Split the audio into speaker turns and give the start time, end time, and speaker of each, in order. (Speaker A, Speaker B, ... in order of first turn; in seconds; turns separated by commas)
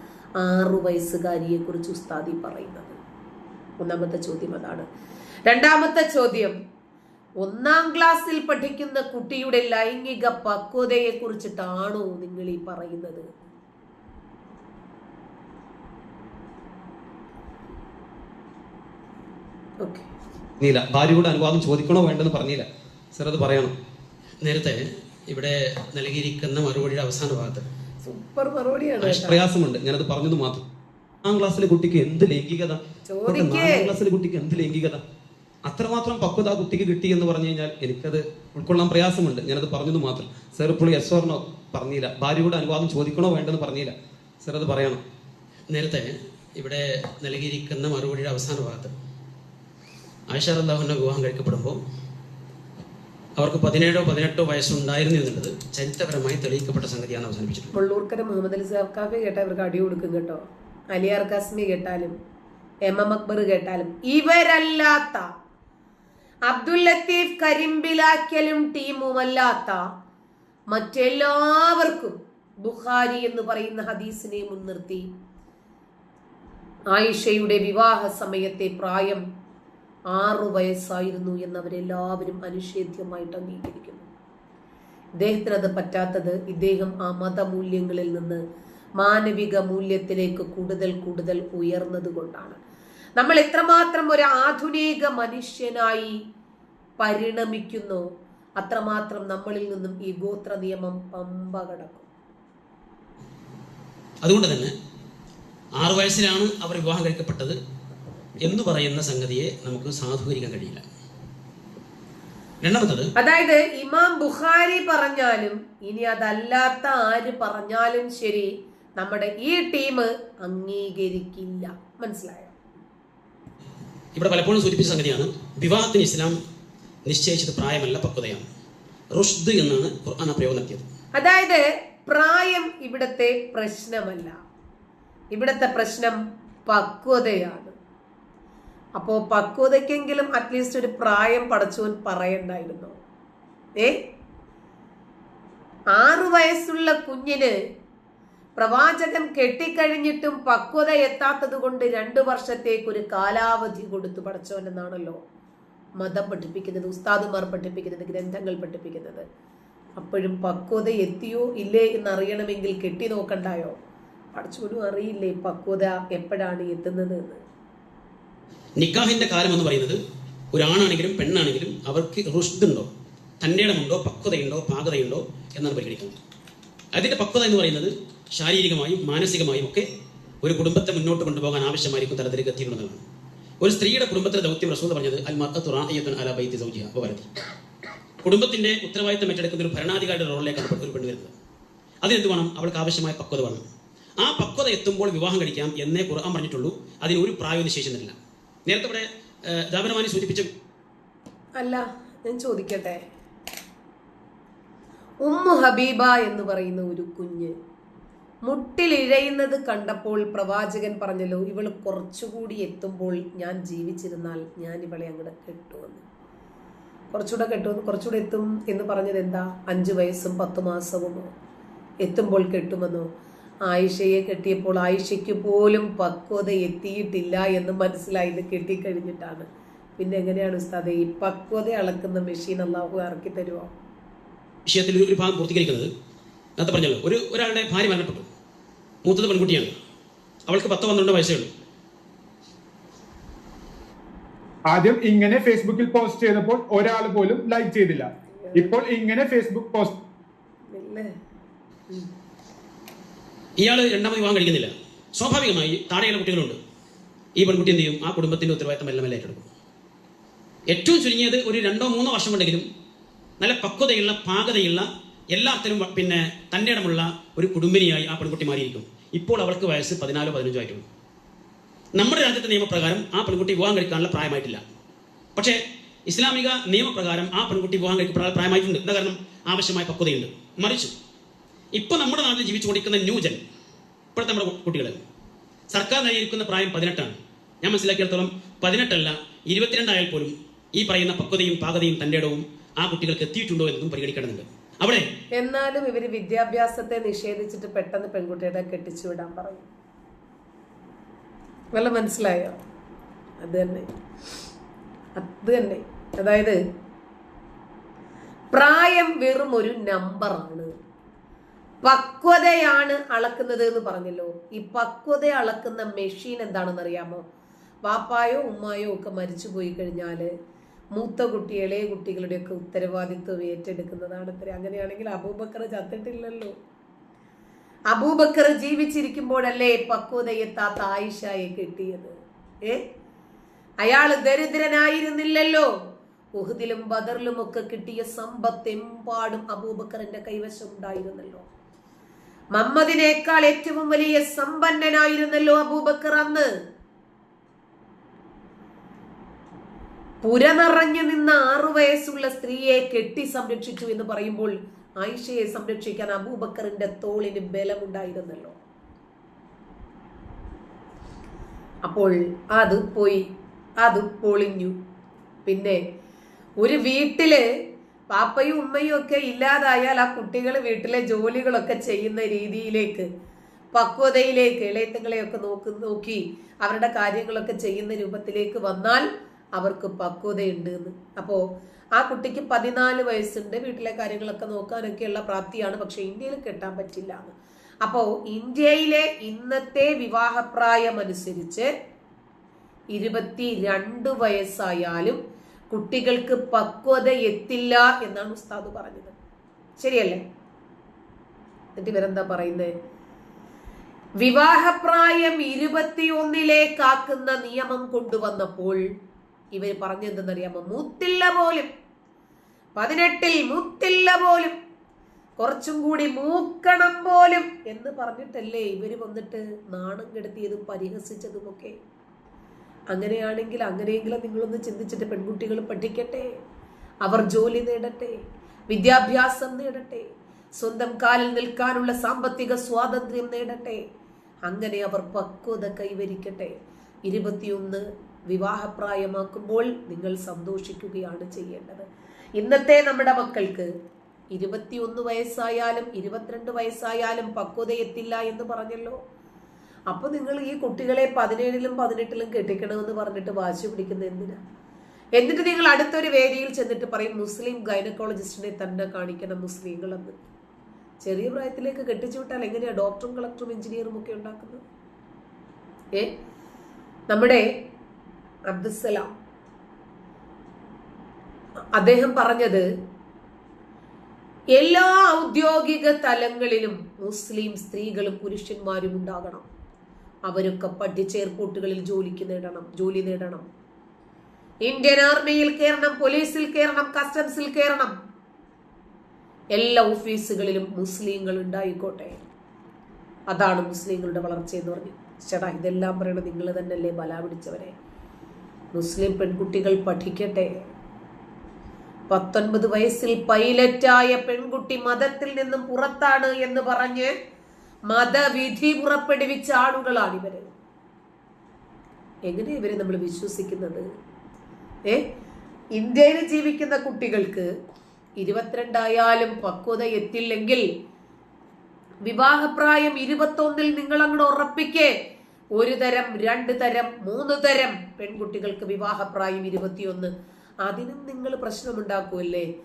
Speaker A: 0.4-3.0, Speaker A: 3.8-4.8, Speaker A: 5.5-6.5, Speaker A: 7.4-13.3, Speaker A: 19.8-20.1, Speaker B: 20.6-23.7, Speaker C: 24.4-27.6, Speaker A: 28.0-29.4, Speaker B: 29.0-30.6, Speaker B: 31.2-35.0, Speaker A: 33.1-33.9, Speaker B: 35.6-45.0, Speaker C: 45.7-48.9, Speaker C: 50.3-51.8, Speaker C: 53.4-57.7, Speaker A: 57.7-62.1, Speaker A: 62.8-65.3, Speaker A: 66.5-69.8, Speaker A: 70.7-75.1, Speaker A: 76.9-79.2, Speaker A: 80.1-84.1, Speaker A: 85.2-88.4, Speaker A: 89.0-92.6, Speaker A: 93.2-96.2, Speaker A: 97.0-98.0, Speaker A: 98.6-102.1, Speaker C: 104.2-104.7, Speaker C: 105.8-107.6, Speaker C: 108.4-110.8, Speaker C: 112.6-113.1, Speaker A: 113.2-122.5, Speaker C: 124.2-126.4, Speaker C: 127.0-128.4, Speaker C: 129.1-130.9, Speaker A: 131.1-134.3, Speaker A: 135.3-137.7, Speaker A: 139.0-142.9, Speaker A: 145.9-147.5, Speaker A: 148.6-155.2, Speaker A: 156.0-159.2, Speaker A: 160.0-163.8, Speaker A: 164.3-167.4, Speaker C: 168.8-170.0, Speaker C: 170.5-172.9, Speaker C: 173.4-176.1, Speaker C: 176.9-179.8, Speaker C: 180.4-183.0, Speaker C: 183.6-187.3, Speaker C: 188.2-191.3, Speaker C: 192.0-193.6, Speaker C: 194.2-200.5, Speaker A: 201.6-203.0, Speaker A: 205.2-207.5, Speaker A: 208.4-216.0, Speaker A: 217.1-221.3, Speaker A: 222.0-223.1, Speaker A: 223.7-229.5, Speaker A: 230.0-233.7, Speaker C: 234.7-235.9, Speaker C: 236.6-238.3, Speaker C: 239.0-239.7, Speaker C: 240.5-241.5, Speaker D: 244.7-249.9, Speaker A: 248.3-248.7, Speaker A: 250.7-251.1, Speaker C: 253.6-256.6, Speaker C: 257.4-259.4, Speaker C: 260.7-262.6, Speaker C: 263.4-270.8, Speaker C: 271.9-274.6, Speaker C: 276.1-280.9, Speaker C: 281.7-283.4, Speaker C: 284.1-285.0, Speaker C: 285.7-295.0, Speaker A: 295.4-299.6, Speaker A: 301.7-302.6, Speaker A: 303.4-303.9, Speaker A: 305.1-306.6, Speaker A: 308.5-310.7, Speaker A: 311.8-317.2, Speaker A: 317.8-320.3, Speaker A: 320.9-326.5, Speaker A: 327.9-332.1, Speaker A: 333.8-335.7, Speaker A: 336.4-341.4, Speaker A: 342.5-346.5, Speaker A: 350.2-358.6, Speaker A: 361.8-363.2, Speaker A: 363.8-364.7, Speaker A: 365.4-365.8, Speaker A: 366.6-367.4, Speaker A: 368.1-373.1, Speaker A: 373.7-379.1, Speaker A: 379.6-381.4, Speaker A: 381.9-391.7, Speaker A: 392.9-395.2, Speaker A: 395.7-399.1, Speaker A: 399.8-400.2, Speaker A: 401.8-402.7, Speaker A: 404.2-408.8, Speaker A: 409.5-411.7, Speaker A: 412.8-414.6, Speaker A: 415.4-421.7, Speaker A: 422.9-426.3, Speaker A: 427.0-428.1, Speaker A: 428.7-430.1, Speaker A: 430.6-433.8, Speaker A: 434.4-436.5, Speaker A: 437.1-441.9, Speaker A: 442.4-443.7, Speaker A: 444.3-449.0, Speaker A: 449.9-454.4, Speaker A: 455.2-460.2, Speaker A: 461.0-464.6, Speaker A: 467.1-467.4, Speaker A: 468.5-469.1, Speaker A: 471.7-472.6, Speaker A: 474.5-479.4, Speaker A: 480.3-483.4, Speaker A: 484.6-487.9, Speaker A: 489.5-492.2, Speaker A: 493.3-497.7, Speaker A: 498.7-500.5, Speaker A: 502.1-507.1, Speaker A: 507.9-510.5, Speaker A: 512.3-513.8, Speaker A: 515.7-517.5, Speaker A: 518.2-520.6, Speaker A: 522.0-524.9, Speaker A: 525.5-530.1, Speaker A: 530.6-532.5